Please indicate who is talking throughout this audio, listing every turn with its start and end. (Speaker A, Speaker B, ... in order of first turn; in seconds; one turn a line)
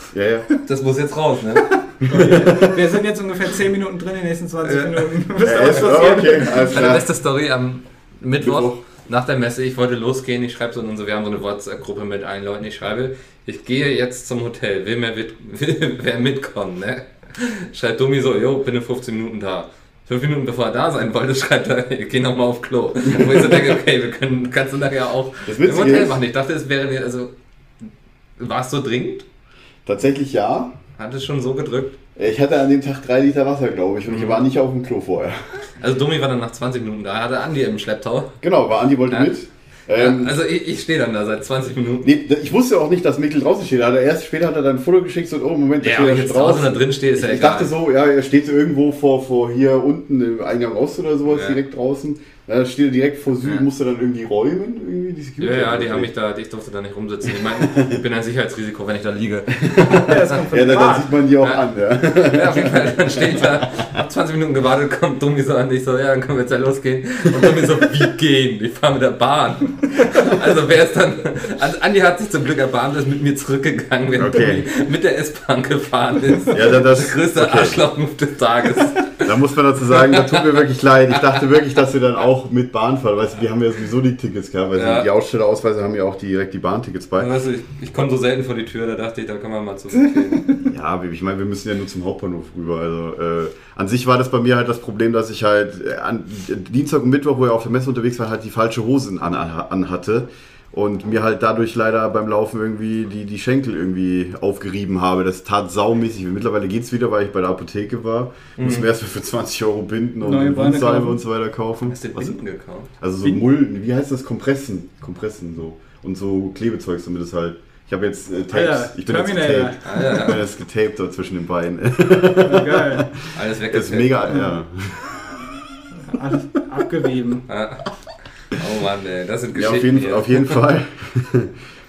Speaker A: 0.1-0.5
Speaker B: 0.6-2.5
Speaker C: 2.0-6.9
Speaker A: 2.0-2.8
Speaker B: 4.6-27.3
Speaker A: 5.4-7.1
Speaker A: 8.4-8.8
Speaker A: 25.5-26.2
Speaker B: 28.4-29.2
Speaker A: 29.9-30.8
Speaker B: 31.0-32.0
Speaker A: 32.1-35.6
Speaker B: 34.1-34.4
Speaker B: 35.8-38.3
Speaker A: 38.4-40.4
Speaker B: 39.9-42.1
Speaker A: 42.0-56.1
Speaker B: 45.8-47.7
Speaker B: 51.3-51.6
Speaker B: 55.4-60.2
Speaker A: 57.5-58.0
Speaker A: 59.6-63.9
Speaker C: 59.8-61.2
Speaker B: 61.4-79.3
Speaker A: 74.2-74.7
Speaker A: 76.5-77.8
Speaker A: 79.2-87.3
Speaker B: 79.9-80.6
Speaker B: 81.1-81.4
Speaker B: 84.8-85.1
Speaker B: 87.2-90.6
Speaker A: 90.6-112.4
Speaker B: 108.6-108.9
Speaker C: 110.2-111.2
Speaker B: 111.9-112.9
Speaker A: 113.0-125.4
Speaker C: 118.5-120.2
Speaker B: 119.8-120.4
Speaker C: 122.3-123.1
Speaker B: 123.3-124.4
Speaker C: 126.0-127.5
Speaker B: 127.5-127.9
Speaker B: 128.5-130.6
Speaker A: 129.5-131.6